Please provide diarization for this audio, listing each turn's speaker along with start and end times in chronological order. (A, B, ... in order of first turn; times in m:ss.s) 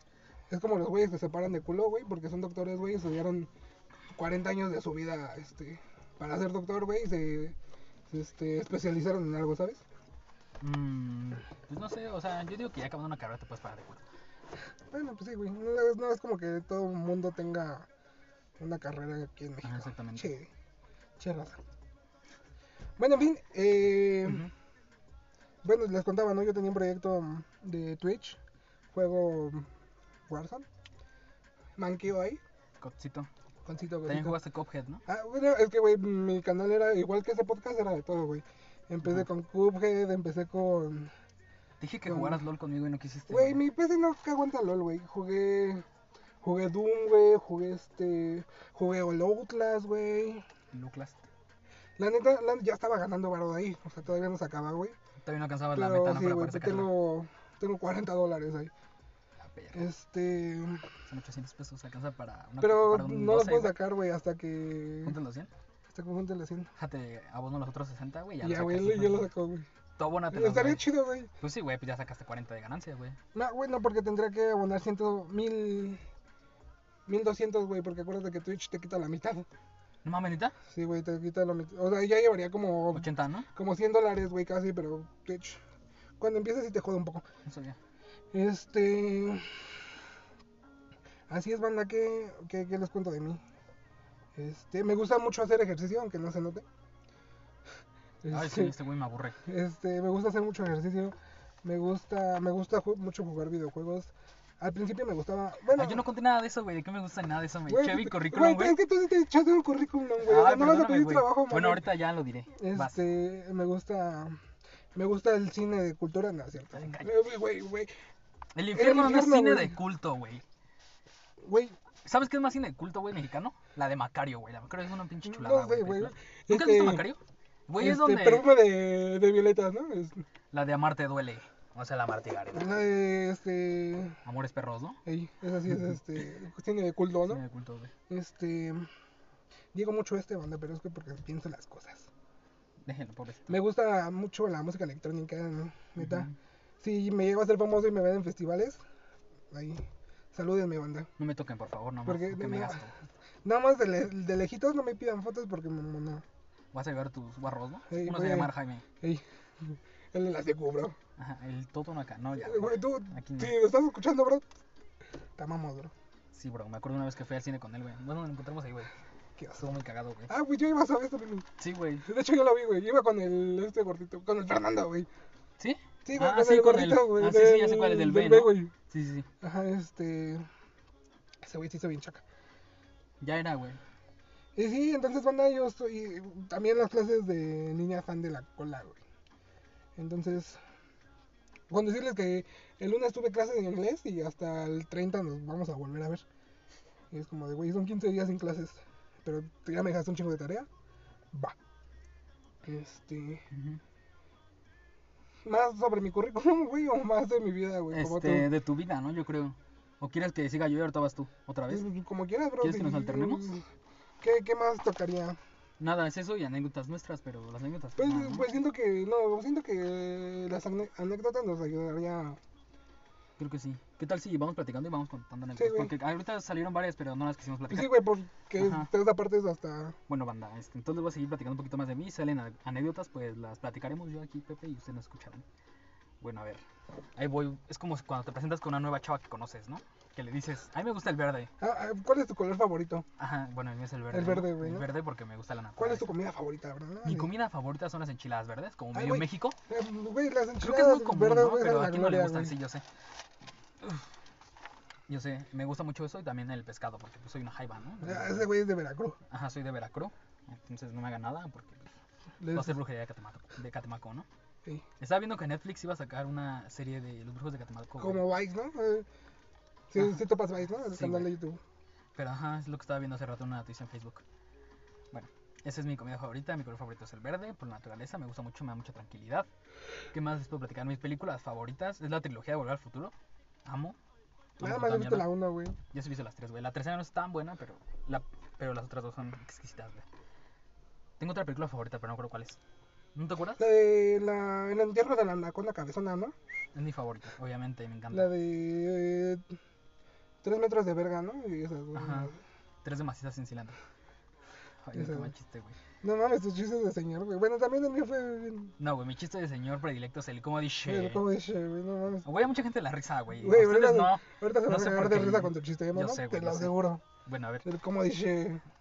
0:00.5-0:03.5 A
0:04.1-0:07.6 A
0:08.1-0:09.8 A
0:10.6-0:14.0 B
0:14.9-0:17.9 A
0:18.6-0:20.5 A
0:19.6-0:20.3 B
0:21.2-0:21.6 A
0:23.0-0:24.4 A
0:25.6-0:28.4 A
0:28.9-0:29.7 A
0:30.3-0:30.6 A
0:31.8-0:32.4 A
0:32.8-0:33.3 B
0:33.6-0:34.4 A
0:34.0-0:35.0 B
0:35.1-0:41.1 A
0:41.8-0:43.6 B
0:42.0-0:42.4 A
0:43.3-0:45.8 A
0:46.4-0:50.4 A
0:50.7-0:51.2 B
0:52.0-0:55.0 A
0:55.2-0:56.9 B
0:55.7-0:58.7 A
0:59.4-0:59.8 B
0:59.7-1:00.9 A
1:01.1-1:03.8 B
1:02.6-1:05.1 A
1:05.0-1:05.5 B
1:05.9-1:06.7 A
1:06.8-1:09.3 B
1:08.4-1:09.7 A
1:10.0-1:13.2 B
1:10.3-1:11.3 A
1:13.3-1:16.0 A
1:17.1-1:19.5 A
1:20.0-1:20.5 B
1:20.7-1:25.6 A
1:22.9-1:23.5 B
1:26.2-1:27.2 A
1:27.4-1:27.8 B
1:28.3-1:29.8 A
1:31.3-1:33.4 A
1:34.4-1:36.6 A
1:38.2-1:38.7 A
1:38.3-1:39.4 B
1:39.4-1:46.1 A
1:45.7-1:48.8 B
1:47.7-1:51.9 A
1:50.2-1:53.0 B
1:52.6-1:54.4 A
1:54.9-1:57.9 A
1:56.7-1:57.2 B
1:58.5-2:00.4 B
1:58.7-1:59.8 A
2:01.4-2:01.8 A
2:02.0-2:08.5 B
2:05.2-2:07.1 A
2:07.8-2:10.2 A
2:10.5-2:12.8 B
2:12.5-2:14.2 A
2:14.2-2:15.0 B
2:15.0-2:17.4 A
2:17.3-2:17.9 B
2:18.1-2:18.9 A
2:19.7-2:22.1 A
2:22.8-2:23.5 B
2:23.5-2:26.3 A
2:26.0-2:26.3 B
2:26.8-2:28.8 A
2:29.5-2:31.1 A
2:31.2-2:32.9 B
2:32.0-2:32.9 A
2:33.4-2:36.2 A
2:36.7-2:38.8 B
2:37.9-2:41.0 A
2:41.2-2:43.6 B
2:42.4-2:44.4 A
2:45.4-2:45.9 A
2:46.3-2:48.9 B
2:49.4-2:49.6 A
2:49.6-2:50.3 B
2:50.3-2:51.5 A
2:51.6-2:52.0 B
2:52.0-2:55.1 A
2:55.6-2:59.3 B
2:56.0-2:58.7 A
2:59.4-3:00.5 A
3:01.4-3:02.2 A
3:03.2-3:03.8 B
3:04.6-3:09.0 A
3:10.0-3:10.6 A
3:11.7-3:16.2 A
3:17.1-3:20.7 A
3:22.6-3:23.4 A
3:23.5-3:23.8 B
3:25.4-3:28.5 A
3:27.9-3:31.8 B
3:31.7-3:33.6 A
3:32.6-3:33.5 B
3:34.2-3:35.4 A
3:35.8-3:38.5 B
3:38.0-3:42.4 A
3:43.4-3:48.9 B
3:45.6-3:45.9 A
3:47.7-3:50.0 A
3:50.1-3:55.4 B
3:56.2-3:56.6 B
3:57.2-4:01.5 B
4:01.6-4:03.0 A
4:03.2-4:06.1 B
4:04.1-4:04.9 A
4:05.8-4:07.3 A
4:07.0-4:09.6 B
4:08.9-4:12.5 A
4:10.6-4:12.8 B
4:15.1-4:18.5 B
4:18.0-4:19.2 A
4:19.3-4:21.9 B
4:22.4-4:22.8 A
4:22.5-4:24.3 B
4:25.0-4:28.2 B
4:28.0-4:29.0 A
4:29.9-4:31.6 A
4:30.9-4:31.3 B
4:32.1-4:34.2 B
4:35.1-4:39.5 B
4:40.1-4:43.1 B
4:43.6-4:44.0 B
4:44.6-4:45.3 B
4:44.6-4:45.8 A
4:45.9-4:50.0 B
4:51.2-4:52.6 B
4:53.1-4:53.6 B
4:53.6-4:56.3 A
4:56.7-4:58.3 B
4:58.1-4:59.5 A
5:00.4-5:02.4 A
5:01.9-5:02.3 B
5:02.8-5:03.8 B
5:04.8-5:05.8 B
5:04.9-5:05.3 A
5:06.0-5:08.7 A
5:08.8-5:11.2 B
5:10.8-5:12.2 A
5:12.2-5:17.7 B
5:13.4-5:17.0 A
5:17.6-5:18.6 A